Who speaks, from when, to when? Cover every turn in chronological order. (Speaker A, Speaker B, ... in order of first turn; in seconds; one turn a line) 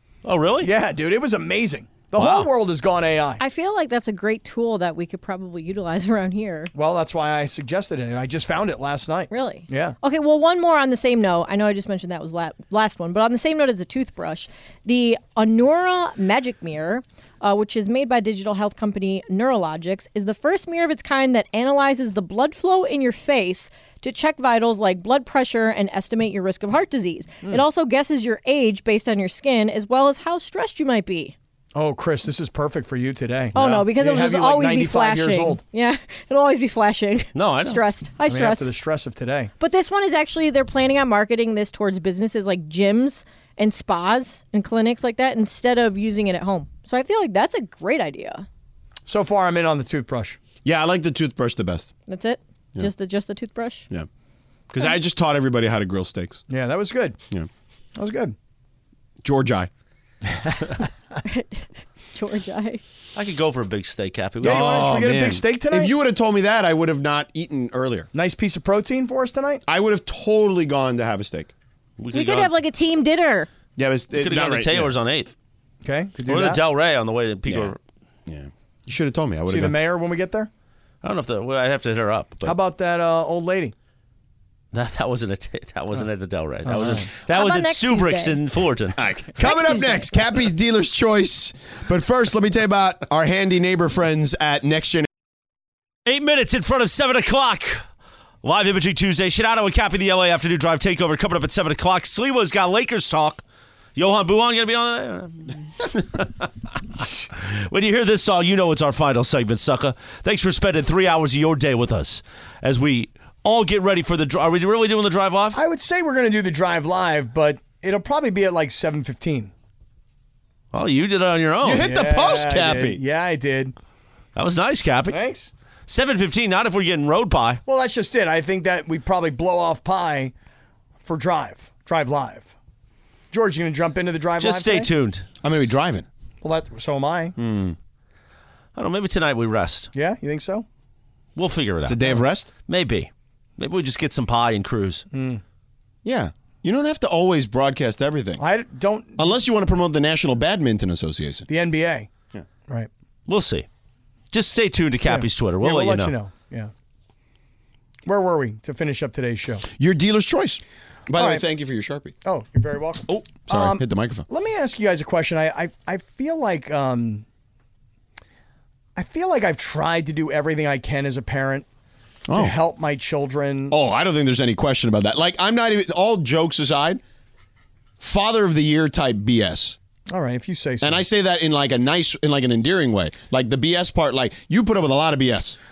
Speaker A: 0.2-0.7
Speaker B: 0.6-3.4
Speaker A: 2.2-2.5
Speaker C: 3.4-6.7
Speaker B: 6.7-9.9
Speaker C: 9.3-31.3
Speaker B: 31.7-35.6
Speaker C: 33.5-38.7
Speaker A: 37.3-37.8
Speaker B: 38.3-39.5
Speaker C: 39.6-48.5
Speaker B: 49.1-50.4
Speaker D: 50.6-51.9
Speaker C: 52.1-53.9
Speaker D: 54.7-56.4
Speaker B: 56.5-57.2
Speaker B: 58.0-58.3
Speaker D: 59.2-59.7
Speaker B: 60.3-60.9
Speaker C: 61.2-61.6
Speaker C: 62.1-62.8
Speaker A: 63.1-64.9
Speaker B: 64.4-65.9
Speaker D: 64.4-68.1
Speaker B: 68.1-69.6
Speaker D: 69.7-71.5
Speaker A: 72.0-72.5
Speaker C: 72.1-73.5
Speaker D: 73.8-74.9
Speaker A: 74.2-75.3
Speaker B: 75.8-76.6
Speaker A: 76.3-77.8
Speaker D: 77.5-77.7
Speaker D: 78.3-79.7
Speaker B: 79.5-80.5
Speaker A: 81.0-82.5
Speaker B: 82.5-83.7
Speaker A: 84.7-89.0
Speaker B: 86.6-87.1
Speaker C: 87.2-88.4
Speaker D: 89.0-95.1
Speaker A: 96.0-97.8
Speaker A: 98.4-103.4
Speaker A: 104.0-115.6
Speaker B: 115.5-119.5
Speaker A: 120.7-121.8
Speaker D: 121.6-123.0
Speaker B: 121.8-123.7
Speaker A: 124.3-125.2
Speaker B: 125.1-125.5
Speaker A: 125.9-127.6
Speaker B: 127.7-130.3
Speaker B: 131.0-132.5
Speaker B: 133.3-134.9
Speaker A: 134.4-135.2
Speaker D: 135.4-136.1
Speaker B: 136.4-137.3
Speaker D: 137.4-137.8
Speaker A: 138.7-139.9
Speaker B: 139.9-140.6
Speaker A: 141.4-142.1
Speaker D: 141.9-142.5
Speaker A: 142.7-145.1
Speaker B: 145.1-145.4
Speaker D: 146.0-148.4
Speaker B: 148.4-149.3
Speaker D: 149.2-151.4
Speaker B: 151.5-152.1
Speaker A: 153.3-153.7
Speaker A: 154.3-156.1
Speaker B: 155.1-156.7
Speaker B: 158.1-159.7
Speaker D: 159.8-162.1
Speaker B: 161.2-161.4
Speaker B: 162.2-167.3
Speaker D: 163.1-164.3
Speaker B: 168.9-171.7
Speaker D: 172.3-172.6
Speaker B: 172.3-173.7
Speaker D: 173.7-177.0
Speaker D: 178.0-179.8
Speaker B: 180.1-181.0
Speaker D: 180.8-185.6